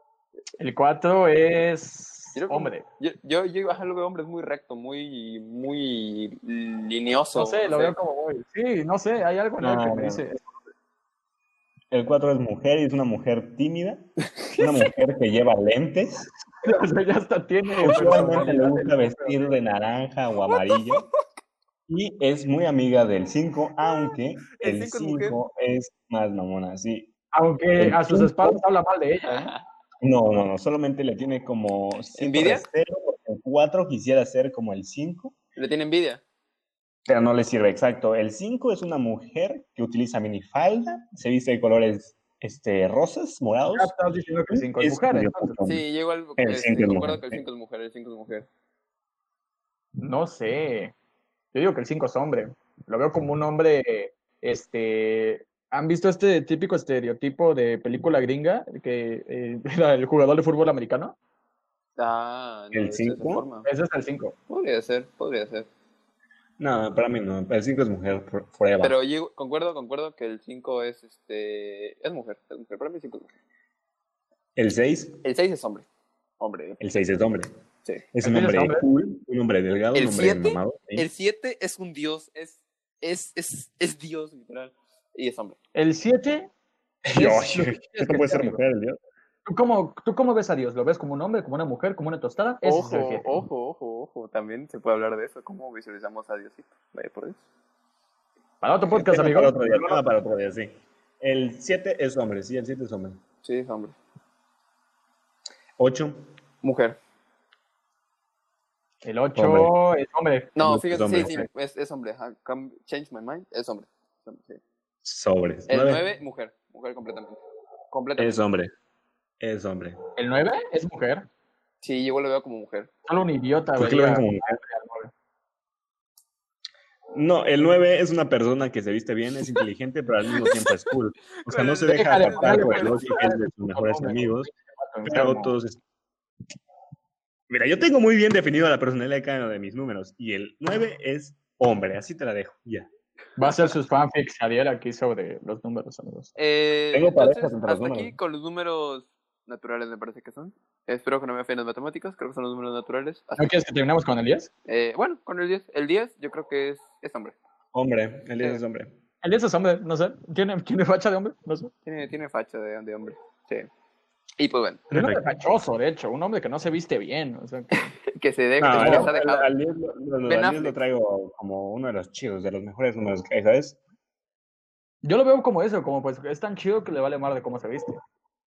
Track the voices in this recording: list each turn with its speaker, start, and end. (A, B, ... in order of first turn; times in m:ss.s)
0:00.6-0:02.8 A
0:02.4-0:08.0 B
0:07.4-0:10.4 A
0:09.6-0:10.3 C
0:11.9-0:14.0 C
0:14.4-0:14.9 B
0:14.6-0:16.3 C
0:16.6-0:19.5 A
0:17.8-0:21.0 C
0:20.5-0:21.0 B
0:21.9-0:27.1 C
0:23.9-0:25.4 B
0:27.3-0:29.5 A
0:27.8-0:28.6 C
0:29.3-0:29.6 B
0:30.0-0:35.3 C
0:32.1-0:32.6 B
0:35.6-0:36.2 B
0:37.1-0:43.9 C
0:43.8-0:45.6 A
0:44.5-0:45.8 C
0:45.6-0:48.5 B
0:46.4-0:47.4 C
0:50.0-0:50.9 A
0:51.5-1:01.2 A
1:02.0-1:03.7 B
1:02.7-1:03.4 C
1:03.6-1:04.4 A
1:04.5-1:05.7 B
1:06.6-1:09.0 C
1:08.8-1:13.3 B
1:14.6-1:15.2 C
1:15.2-1:15.9 B
1:16.4-1:16.8 B
1:16.8-1:17.5 C
1:18.1-1:21.1 C
1:18.2-1:18.9 A
1:19.9-1:25.6 B
1:25.8-1:26.5 A
1:27.1-1:29.0 C
1:27.1-1:28.6 A
1:29.5-1:33.3 A
1:32.6-1:37.4 B
1:38.6-1:40.0 A
1:38.9-1:43.2 C
1:43.4-1:44.0 B
1:45.8-1:46.3 C
1:46.6-1:47.0 B
1:49.0-1:50.6 A
1:49.4-1:49.7 C
1:50.6-1:54.6 B
1:50.6-1:51.5 C
1:55.0-1:56.0 C
1:55.7-1:57.4 B
1:57.9-1:58.4 B
1:58.2-1:58.7 C
1:59.4-2:00.0 C
2:00.2-2:01.3 A
2:01.8-2:02.9 B
2:03.1-2:05.1 A
2:03.8-2:04.6 C
2:07.1-2:14.5 C
2:10.4-2:10.7 B
2:11.5-2:13.2 B
2:11.9-2:15.5 A
2:15.0-2:15.8 C
2:17.5-2:22.9 C
2:23.4-2:26.3 A
2:26.4-2:33.5 B
2:26.9-2:28.1 C
2:33.4-2:34.5 A
2:34.6-2:37.4 B
2:37.7-2:38.9 C
2:39.2-2:41.7 A
2:41.9-2:43.7 B
2:44.4-2:44.9 B
2:44.9-2:45.4 C
2:44.9-2:47.9 A
2:47.8-2:49.5 B
2:48.6-2:53.8 C
2:48.7-2:49.1 A
2:50.3-2:50.8 B
2:55.0-2:58.0 A